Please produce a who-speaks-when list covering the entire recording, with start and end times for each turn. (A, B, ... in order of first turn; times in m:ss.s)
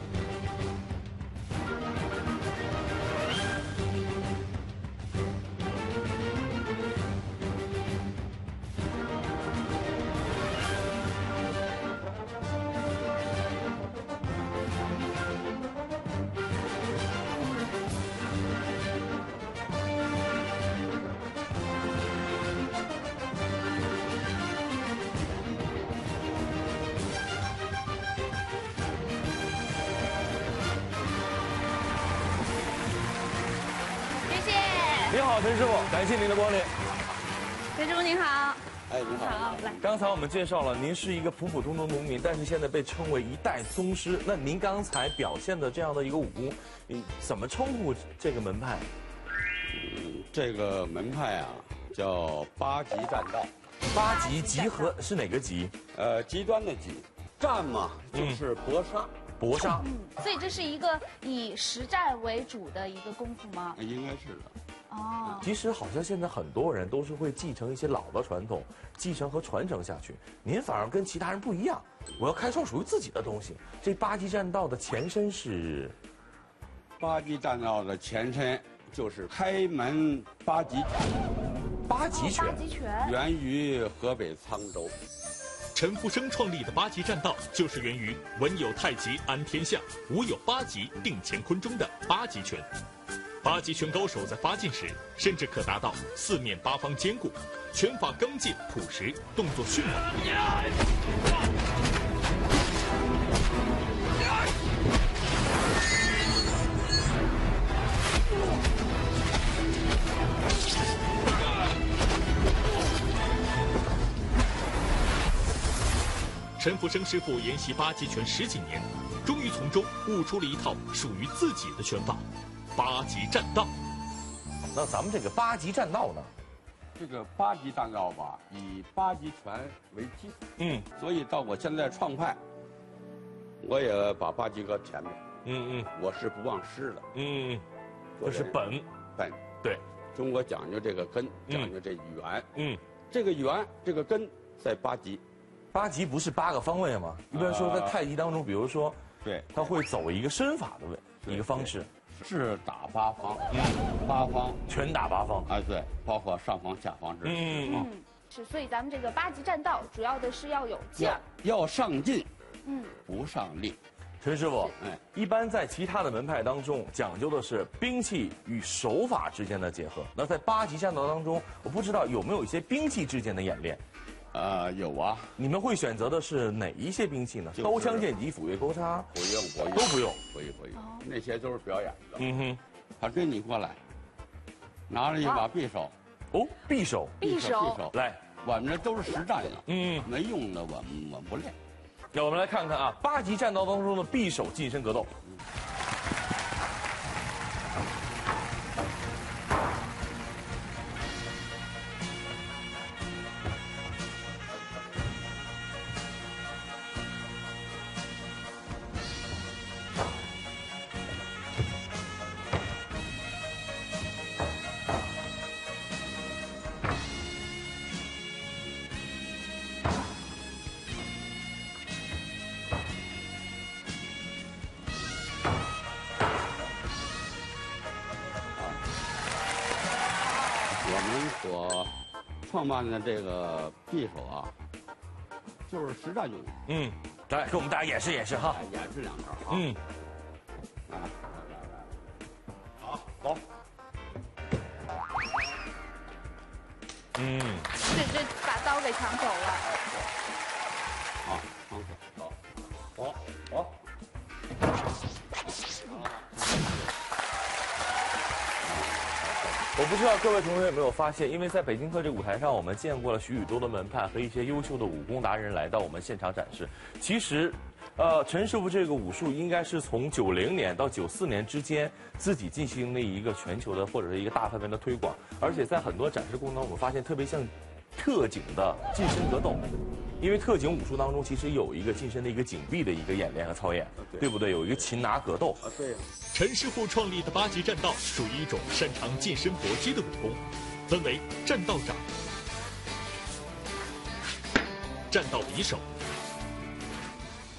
0:34.3-0:35.2 A
0:35.1-0:36.7 B
0:37.8-0:39.8 A
0:38.9-0:39.8 C
0:39.8-0:48.9 B
0:49.7-0:53.5 C
0:53.9-0:55.8 B
0:53.9-0:55.0 A
0:55.9-0:59.1 C
0:58.1-0:58.4 B
0:59.4-0:59.9 B
0:59.6-1:03.8 A
1:03.8-1:04.6 C
1:04.9-1:05.5 A
1:05.4-1:16.0 B
1:17.0-1:21.0 C
1:21.9-1:22.6 B
1:22.1-1:23.2 A
1:23.0-1:25.0 C
1:25.8-1:32.7 D
1:33.4-1:40.3 D
1:56.6-2:03.8 D
2:04.7-2:06.3 B
2:07.0-2:10.4 C
2:10.6-2:10.9 B
2:11.0-2:12.4 C
2:13.6-2:15.3 C
2:15.4-2:15.9 B
2:15.9-2:17.1 C
2:17.1-2:17.6 B
2:18.2-2:18.6 C
2:18.2-2:18.9 B
2:19.2-2:19.6 C
2:20.1-2:22.5 C
2:21.5-2:21.7 B
2:22.6-2:22.8 B
2:23.1-2:25.2 C
2:25.7-2:29.0 B
2:27.3-2:28.0 C
2:29.2-2:29.8 C
2:29.5-2:31.9 B
2:31.2-2:34.6 C
2:33.5-2:33.8 B
2:34.7-2:35.5 B
2:35.5-2:37.9 C
2:37.2-2:37.9 B
2:37.6-2:41.2 A
2:41.0-2:42.3 C
2:42.6-2:43.0 A
2:43.1-2:43.8 C
2:44.2-2:53.8 B
2:44.8-2:45.0 C
2:54.3-2:55.3 C
2:55.4-2:59.1 B
2:57.6-2:58.1 C
2:59.1-3:02.2 C
2:59.7-3:00.2 B
3:00.8-3:01.1 A
3:02.2-3:02.6 B
3:03.0-3:03.8 C
3:04.9-3:05.9 C
3:06.3-3:07.2 B
3:07.2-3:07.8 A
3:07.2-3:11.6 C
3:07.9-3:08.2 B
3:09.7-3:10.1 B
3:12.1-3:15.1 B
3:50.4-3:50.8 A
3:50.8-3:51.9 C
3:52.5-3:54.5 C
3:55.7-3:56.6 C
3:56.7-3:58.6 B
3:58.5-3:59.7 C
3:59.5-3:59.8 B
4:00.9-4:01.7 C
4:02.8-4:03.4 C
4:07.2-4:07.7 B
4:07.8-4:09.7 A
4:11.2-4:12.4 C
4:13.0-4:13.7 C
4:15.9-4:16.4 C
4:18.6-4:19.5 C
4:19.8-4:39.7 B
4:40.2-4:45.6 B
4:44.0-4:44.9 C
4:45.6-4:46.1 C
4:46.3-4:52.0 D
4:55.1-4:55.8 D